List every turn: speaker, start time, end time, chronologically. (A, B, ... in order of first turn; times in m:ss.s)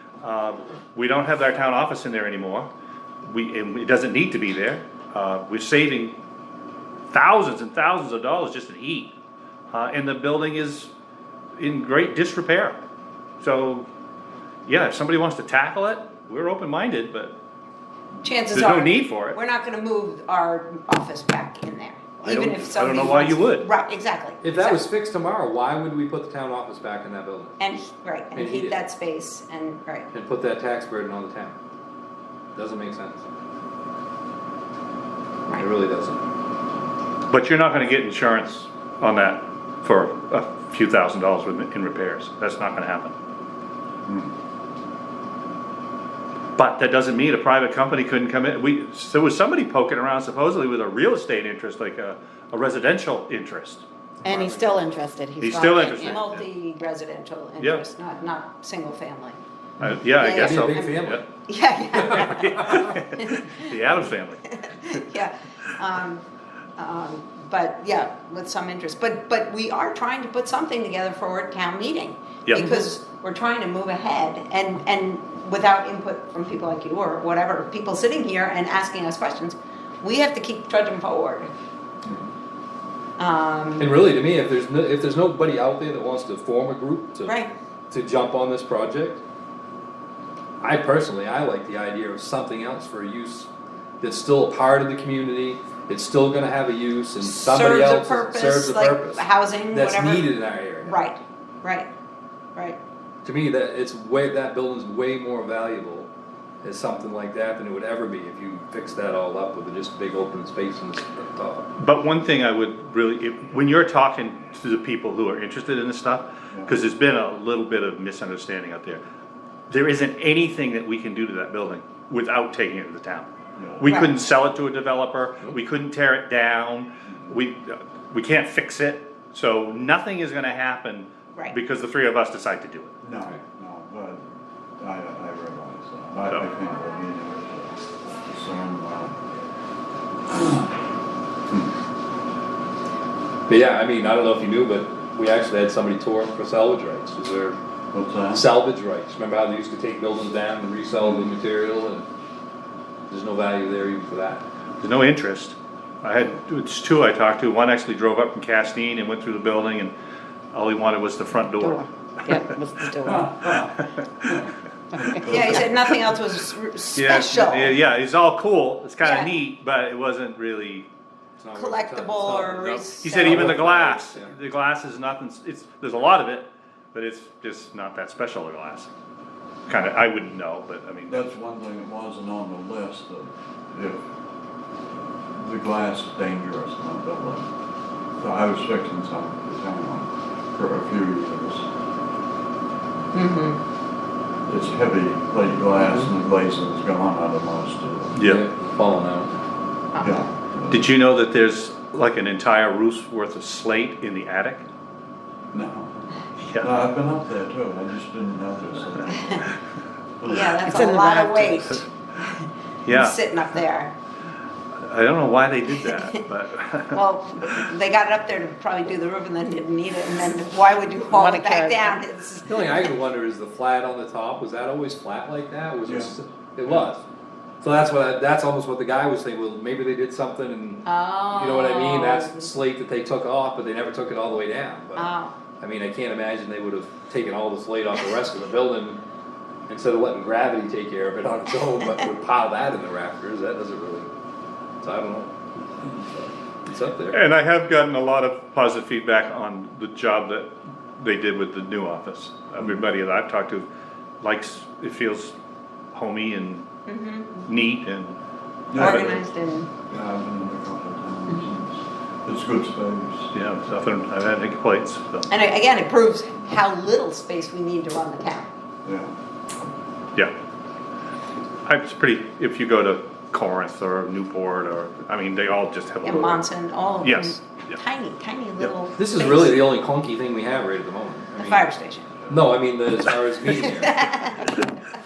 0:00.2-0:02.7 A
0:03.2-0:06.1 A
0:07.1-0:09.1 A
0:09.7-0:10.9 A
0:11.6-0:12.8 A
0:13.4-0:13.9 A
0:14.6-0:17.3 A
0:18.2-0:24.8 B
0:18.5-0:19.4 A
0:22.2-0:23.7 A
0:24.4-0:27.6 C
0:27.6-0:30.1 B
0:28.3-0:28.8 C
0:30.1-0:31.6 C
0:32.5-0:33.2 C
0:35.5-0:36.2 C
0:37.3-0:43.1 A
0:44.1-0:44.3 D
0:46.6-0:53.8 A
0:54.2-0:56.1 E
0:54.2-0:54.9 C
0:55.4-0:56.4 A
0:55.8-0:59.4 B
0:59.8-1:01.2 A
1:00.2-1:06.2 B
1:00.2-1:01.3 C
1:01.9-1:05.0 A
1:06.8-1:21.5 B
1:12.4-1:12.8 A
1:23.2-1:23.9 B
1:23.8-1:29.2 C
1:27.2-1:27.5 B
1:30.6-1:33.5 C
1:34.0-1:41.1 C
1:37.2-1:41.9 B
1:43.2-1:46.1 C
1:46.6-1:51.7 C
1:51.8-1:59.0 A
1:59.7-2:12.9 A
2:03.6-2:03.9 D
2:03.8-2:04.1 B
2:07.0-2:07.3 D
2:13.0-2:14.3 D
2:14.8-2:19.2 D
2:20.3-2:20.7 D
2:23.5-2:27.6 C
2:27.9-2:28.4 D
2:28.3-2:32.0 C
2:31.0-2:31.3 D
2:33.1-2:34.4 C
2:34.8-2:39.9 A
2:40.5-2:42.5 A
2:41.6-2:43.3 E
2:43.0-2:45.8 D
2:43.9-2:44.4 A
2:44.9-2:45.6 E
2:45.2-2:47.8 B
2:46.9-2:50.9 A
2:49.0-2:49.3 B
2:51.4-2:54.3 C
2:51.5-2:53.6 B
2:53.0-2:58.9 A
2:59.7-3:01.2 A
3:01.1-3:04.0 D
3:05.3-3:07.5 D
3:08.2-3:11.7 D
3:13.1-3:13.6 B
3:14.4-3:18.2 D
3:18.1-3:18.4 A
3:18.2-3:19.3 C
3:19.9-3:20.3 B
3:20.0-3:20.9 D
3:20.7-3:24.6 A
3:25.5-3:26.1 D
3:26.4-3:26.7 A
3:26.6-3:29.5 D
3:29.1-3:29.4 B
3:30.2-3:30.7 D
3:30.3-3:34.0 B
3:30.6-3:31.8 E
3:32.8-3:33.2 A
3:34.8-3:37.6 A
3:35.8-3:36.1 B
3:36.9-3:42.9 B
3:41.0-3:42.0 E
3:42.4-3:47.0 C
3:45.8-3:46.1 D
3:47.6-3:59.0 C
3:50.8-3:52.5 B
3:54.9-3:55.3 B
3:59.7-4:04.1 C
4:04.8-4:07.2 C
4:07.1-4:13.7 A
4:14.2-4:15.3 A
4:15.9-4:16.6 A
4:16.9-4:17.3 B
4:17.4-4:18.2 A
4:18.7-4:19.2 D
4:18.7-4:19.1 A
4:18.7-4:19.7 B
4:19.8-4:23.3 D
4:23.3-4:25.3 A
4:25.3-4:28.5 B
4:28.8-4:29.7 D
4:31.6-4:36.5 A
4:36.0-4:39.6 B
4:37.0-4:37.8 A
4:39.0-4:41.7 C
4:41.4-4:42.2 B
4:42.3-4:44.6 C
4:43.8-4:44.5 B